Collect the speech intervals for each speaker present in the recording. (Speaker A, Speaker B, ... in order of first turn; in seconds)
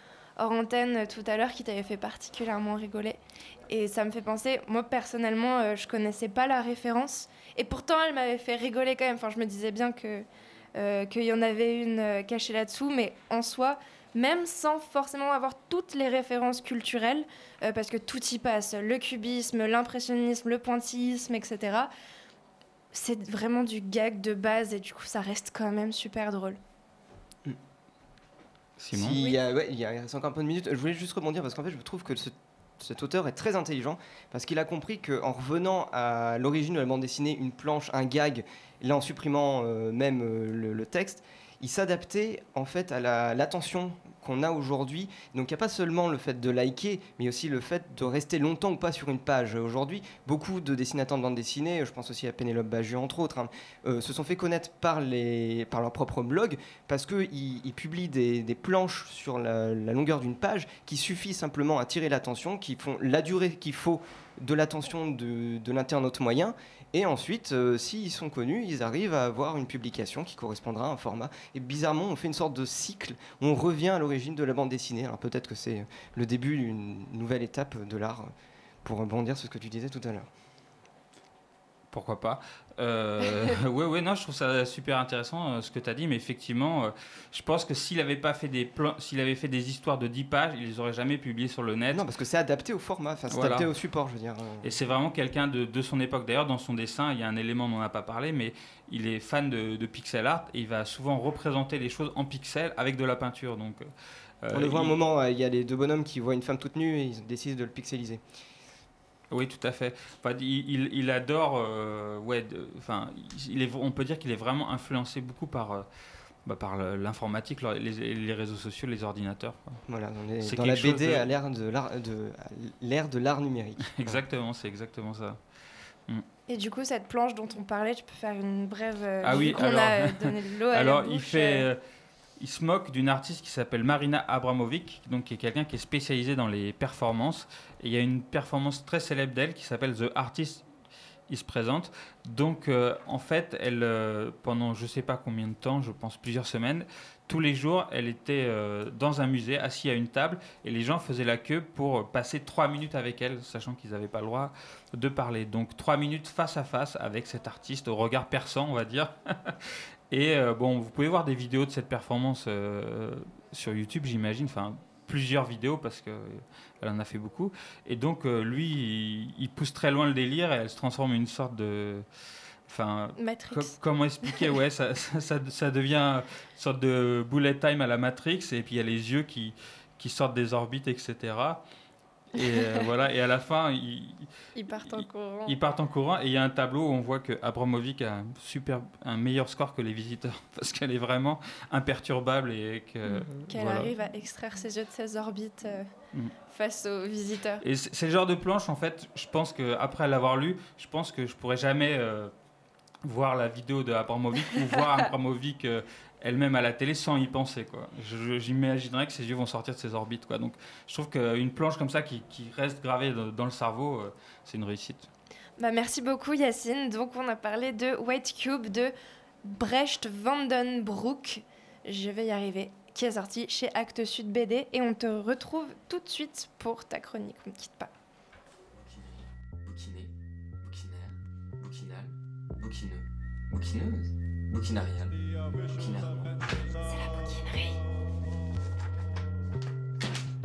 Speaker A: 0.4-21.9, 22.9-26.6, 126.5-131.6, 173.2-173.7, 184.6-185.5, 193.1-195.9, 196.5-197.6, 215.6-227.9
Speaker B: 28.8-29.2, 81.9-92.0, 93.3-93.7, 94.6-103.9, 104.4-105.0, 109.3-115.9, 116.5-119.8, 120.4-121.3, 123.8-125.4, 129.2-131.8, 132.4-140.6, 141.3-159.6, 160.1-172.1, 172.7-181.6, 182.3-184.3, 185.4-193.9, 197.6-202.3, 203.0-215.1
Speaker C: 28.9-78.3, 78.8-80.3, 91.9-94.7, 104.5-108.2, 119.9-124.2
Speaker D: 228.7-237.8